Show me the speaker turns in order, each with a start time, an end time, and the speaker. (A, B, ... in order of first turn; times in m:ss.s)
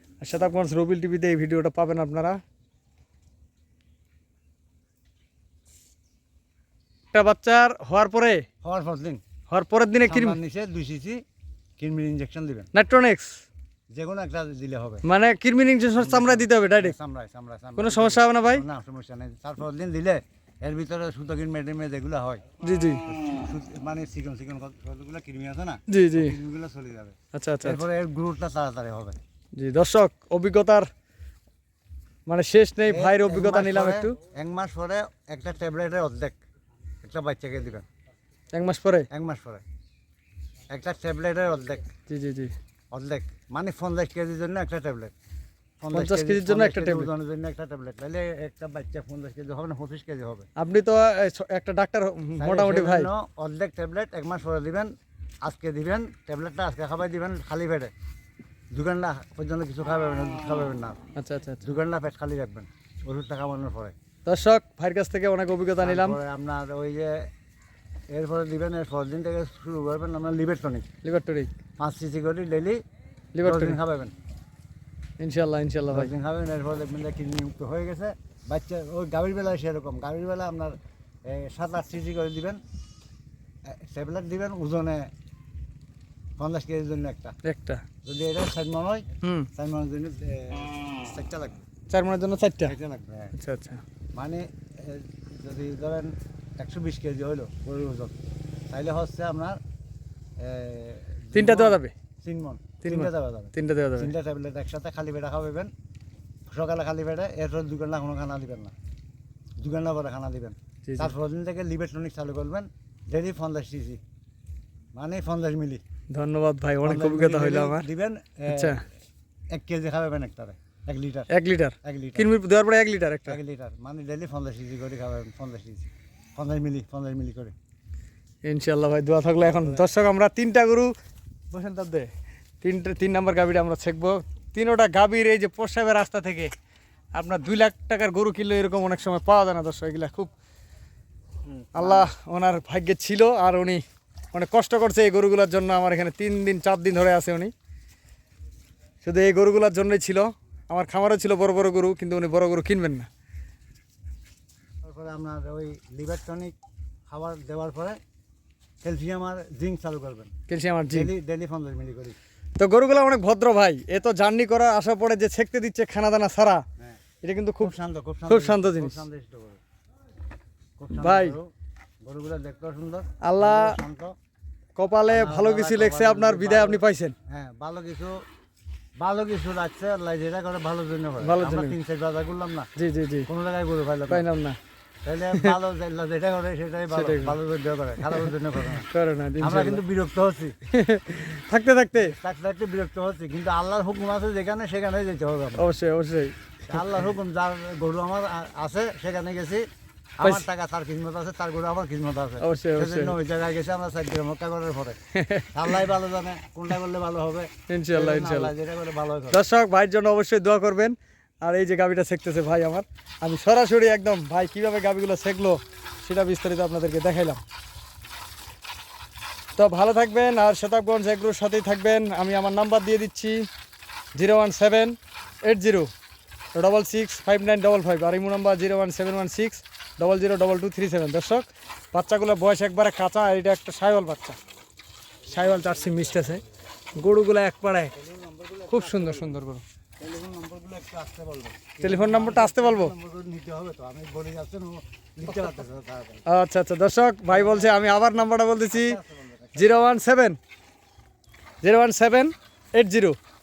0:00.2-0:02.4 A
0:07.1-0:08.4 A
0:08.6-0:09.2 B
0:09.5-0:10.4 A
0:10.0-0:11.2 B
0:11.8-0:12.7 B
0:12.7-0:13.4 A
0:13.9-0:15.0 B
0:15.0-0:17.0 A
0:16.0-0:22.4 B
0:17.8-0:18.6 A
0:22.6-0:23.0 A
0:23.1-0:29.2 B
0:25.9-0:26.4 A
0:27.3-0:27.8 A
0:29.6-0:30.9 A
0:32.3-0:34.2 A
0:32.9-0:36.4 B
0:37.0-0:37.9 B
0:38.5-0:39.1 A
0:39.1-0:39.6 B
0:40.7-0:41.9 B
0:42.1-0:42.5 A
0:42.9-0:45.1 B
0:45.8-0:50.5 B
0:45.9-0:47.1 A
0:50.6-0:53.1 A
0:52.4-0:54.9 B
0:55.4-0:57.9 B
0:58.7-1:01.0 B
1:01.2-1:01.6 A
1:01.6-1:03.9 B
1:04.3-1:06.2 A
1:05.8-1:07.3 B
1:08.1-1:10.9 B
1:11.0-1:11.5 A
1:11.8-1:12.8 B
1:13.3-1:13.8 A
1:13.4-1:14.1 B
1:15.2-1:16.1 A
1:15.9-1:22.6 B
1:23.7-1:25.1 B
1:26.4-1:27.4 B
1:27.4-1:27.8 A
1:28.0-1:31.6 B
1:29.2-1:29.5 A
1:31.9-1:32.8 A
1:32.6-1:33.4 B
1:33.4-1:33.8 A
1:34.1-1:38.2 B
1:38.7-1:39.6 B
1:40.4-1:45.7 B
1:41.3-1:41.9 A
1:42.8-1:44.1 A
1:46.5-1:48.7 B
1:49.6-1:54.0 B
1:50.8-1:51.1 A
1:54.9-1:55.8 B
1:56.1-1:57.9 A
1:56.8-1:58.8 B
1:58.5-1:58.8 A
1:59.5-2:01.3 B
2:01.3-2:03.4 A
2:01.8-2:02.3 B
2:03.3-2:07.6 B
2:08.4-2:10.9 A
2:09.4-2:09.9 B
2:11.5-2:12.1 A
2:12.6-2:16.5 A
2:17.2-2:20.3 A
2:21.5-2:22.1 B
2:21.8-2:27.5 A
2:29.0-2:33.1 A
2:34.8-2:36.6 B
2:37.1-2:38.0 B
2:38.8-2:40.3 B
2:40.5-2:41.1 A
2:40.9-2:42.2 B
2:42.6-2:46.6 A
2:47.2-2:47.7 A
2:47.6-2:49.6 B
2:48.3-2:49.0 A
2:50.8-2:51.5 B
2:51.0-2:51.4 A
2:52.0-2:54.2 B
2:53.2-2:53.8 A
2:54.8-2:57.2 A
2:55.1-2:58.2 B
2:59.0-3:02.7 B
3:01.2-3:01.8 A
3:02.8-3:03.3 A
3:03.3-3:04.2 B
3:04.1-3:04.6 A
3:05.0-3:10.6 B
3:06.9-3:07.4 A
3:08.1-3:09.8 A
3:10.7-3:12.1 A
3:12.0-3:15.7 B
3:15.6-3:16.8 A
3:16.7-3:19.7 B
3:20.2-3:25.0 B
3:22.4-3:23.2 A
3:25.2-3:25.7 A
3:25.5-3:29.4 B
3:27.7-3:28.5 A
3:29.3-3:37.4 A
3:39.6-3:43.5 A
3:44.2-3:45.9 A
3:46.5-3:54.4 A
3:55.3-3:56.4 A
3:55.3-3:56.3 B
3:57.0-3:57.9 A
3:57.9-3:59.4 B
3:58.7-3:59.6 A
4:00.0-4:06.2 B
4:01.8-4:02.9 A
4:06.3-4:09.0 A
4:07.3-4:07.8 B
4:08.7-4:09.8 B
4:09.6-4:10.4 A
4:11.6-4:13.2 A